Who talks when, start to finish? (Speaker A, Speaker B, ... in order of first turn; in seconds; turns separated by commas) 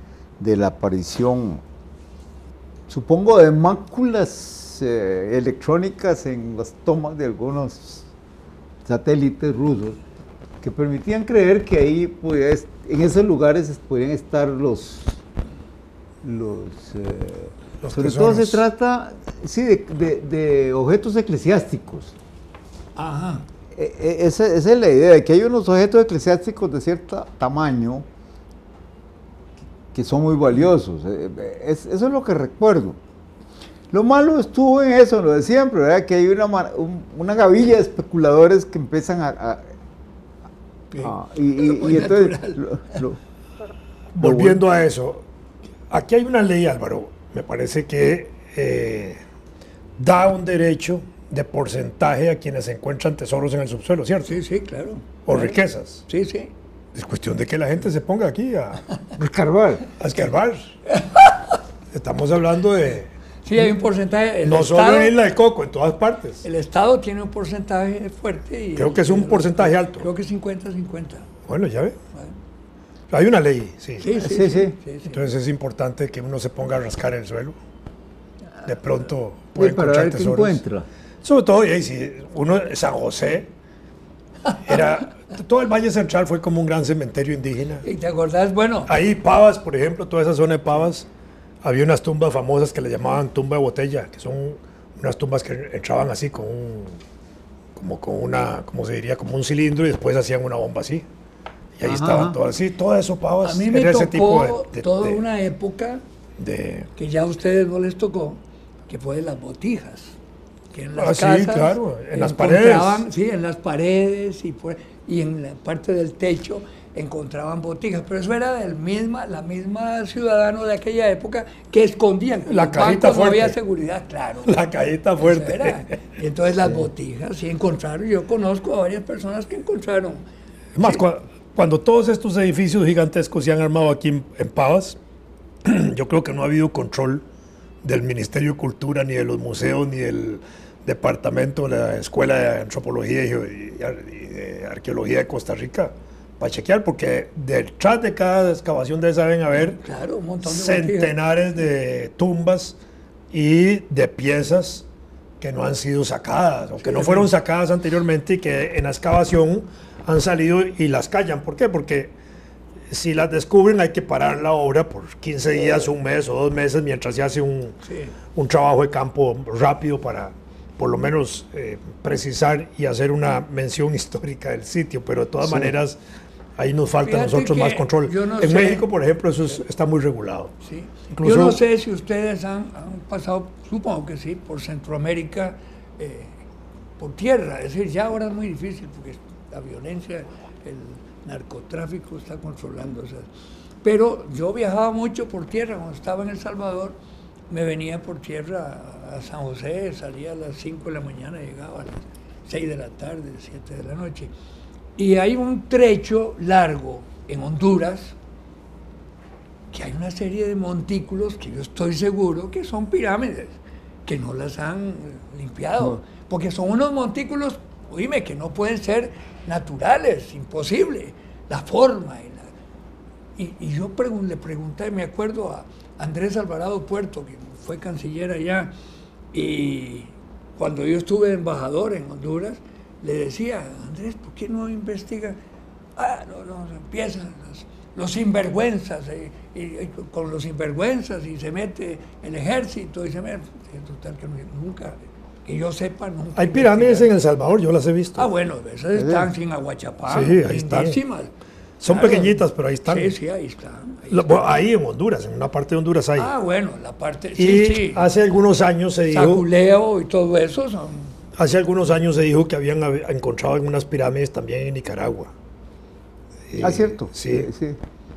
Speaker A: 0.4-1.6, Speaker A: 2.9-8.1, Speaker A: 8.8-10.0, Speaker A: 10.6-15.2, Speaker A: 16.2-22.1, Speaker B: 17.8-18.6, Speaker C: 22.9-23.4, Speaker A: 23.7-28.1, Speaker A: 29.9-33.0, Speaker A: 33.9-39.7, Speaker C: 40.9-43.0, Speaker A: 41.0-43.2, Speaker B: 44.1-45.2, Speaker A: 44.2-44.6, Speaker B: 45.9-49.2, Speaker B: 50.0-54.4, Speaker C: 54.2-56.5, Speaker B: 55.2-56.0, Speaker B: 56.9-58.9, Speaker A: 59.1-59.9, Speaker B: 60.0-60.8, Speaker C: 60.9-61.6, Speaker B: 61.9-63.1, Speaker C: 63.4-65.1, Speaker B: 64.4-66.4, Speaker C: 66.4-71.3, Speaker B: 68.8-70.0, Speaker B: 71.5-72.0, Speaker B: 73.1-74.1, Speaker C: 74.0-75.2, Speaker A: 74.1-74.8, Speaker B: 75.0-77.5, Speaker B: 78.6-80.6, Speaker A: 79.5-80.9, Speaker B: 81.2-83.5, Speaker B: 84.5-87.8, Speaker C: 87.8-88.9, Speaker B: 88.9-91.1, Speaker B: 91.6-97.0, Speaker B: 97.7-101.0, Speaker B: 101.8-105.2, Speaker A: 101.8-102.4, Speaker C: 103.4-106.0, Speaker B: 106.4-106.9, Speaker C: 107.0-110.2, Speaker C: 110.7-124.5, Speaker B: 110.9-113.0, Speaker B: 122.5-123.5, Speaker B: 124.4-126.0, Speaker C: 125.2-130.2, Speaker B: 130.8-135.0, Speaker B: 135.6-137.2, Speaker B: 137.8-149.8, Speaker C: 149.5-151.1, Speaker B: 150.4-152.8, Speaker B: 153.3-154.8, Speaker B: 155.4-162.1, Speaker C: 156.8-157.3, Speaker B: 162.9-167.8, Speaker C: 167.8-168.1, Speaker B: 168.3-176.0, Speaker A: 175.4-175.7, Speaker B: 176.6-180.5, Speaker C: 177.0-178.8, Speaker C: 180.6-186.4, Speaker B: 181.1-181.6, Speaker C: 187.0-193.3, Speaker C: 193.8-196.9, Speaker C: 197.5-204.3, Speaker C: 205.0-208.2, Speaker C: 209.7-222.5, Speaker C: 223.4-228.7, Speaker C: 229.3-235.4, Speaker C: 235.9-247.1, Speaker B: 246.3-248.3, Speaker C: 248.2-251.3, Speaker A: 248.9-249.3, Speaker B: 250.1-251.0, Speaker B: 251.8-253.2, Speaker C: 251.9-254.6, Speaker B: 254.1-256.3, Speaker C: 256.2-258.1, Speaker B: 257.4-259.4, Speaker C: 259.1-261.1, Speaker B: 261.4-265.3, Speaker B: 266.5-267.5, Speaker A: 266.6-267.8